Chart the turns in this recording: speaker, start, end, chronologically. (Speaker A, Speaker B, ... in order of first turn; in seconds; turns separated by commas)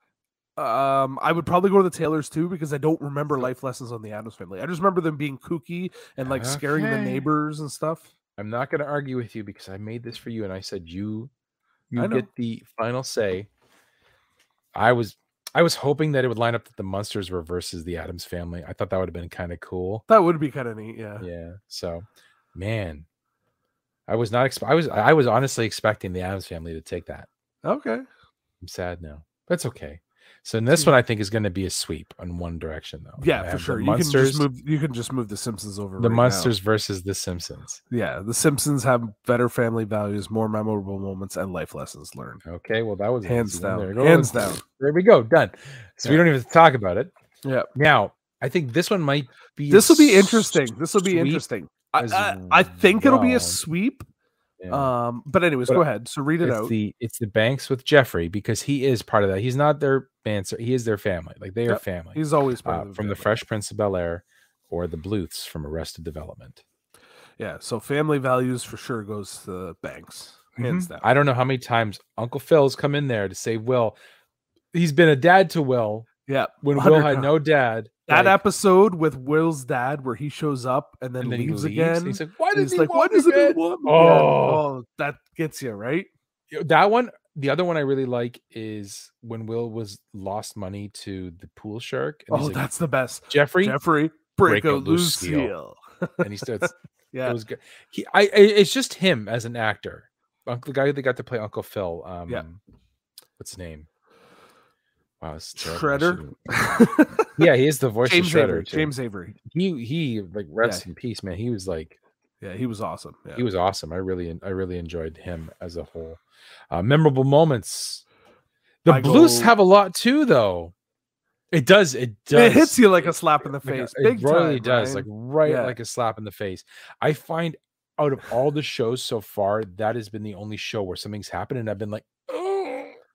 Speaker A: 0.6-8.1, Speaker B: 6.2-7.3, Speaker B: 8.4-11.3, Speaker B: 11.9-13.5, Speaker A: 12.0-12.3, Speaker B: 14.7-20.0, Speaker A: 20.1-21.3, Speaker B: 21.2-23.1, Speaker B: 24.1-27.3, Speaker A: 27.6-28.0, Speaker B: 28.6-34.5, Speaker A: 33.2-36.5, Speaker B: 36.0-37.8, Speaker A: 37.9-42.4, Speaker B: 42.4-47.1, Speaker A: 43.2-44.6, Speaker B: 47.7-51.4, Speaker A: 49.7-54.1, Speaker B: 52.0-53.6, Speaker B: 54.6-54.9, Speaker A: 54.7-56.7, Speaker B: 56.4-66.6, Speaker A: 61.7-63.3, Speaker A: 67.4-71.0, Speaker B: 70.6-74.0, Speaker B: 74.7-76.1, Speaker A: 76.3-77.3, Speaker B: 76.6-78.4, Speaker A: 78.1-86.1, Speaker B: 81.2-84.6, Speaker B: 86.5-92.7, Speaker A: 92.3-97.4, Speaker B: 93.3-93.8, Speaker B: 94.4-95.5, Speaker B: 96.2-102.6, Speaker B: 103.4-103.9, Speaker B: 105.2-112.0, Speaker A: 105.6-107.5, Speaker A: 108.0-109.3, Speaker A: 112.4-113.4, Speaker B: 113.3-118.0, Speaker B: 118.8-120.7, Speaker A: 118.9-119.5, Speaker B: 121.5-133.0, Speaker A: 122.3-125.8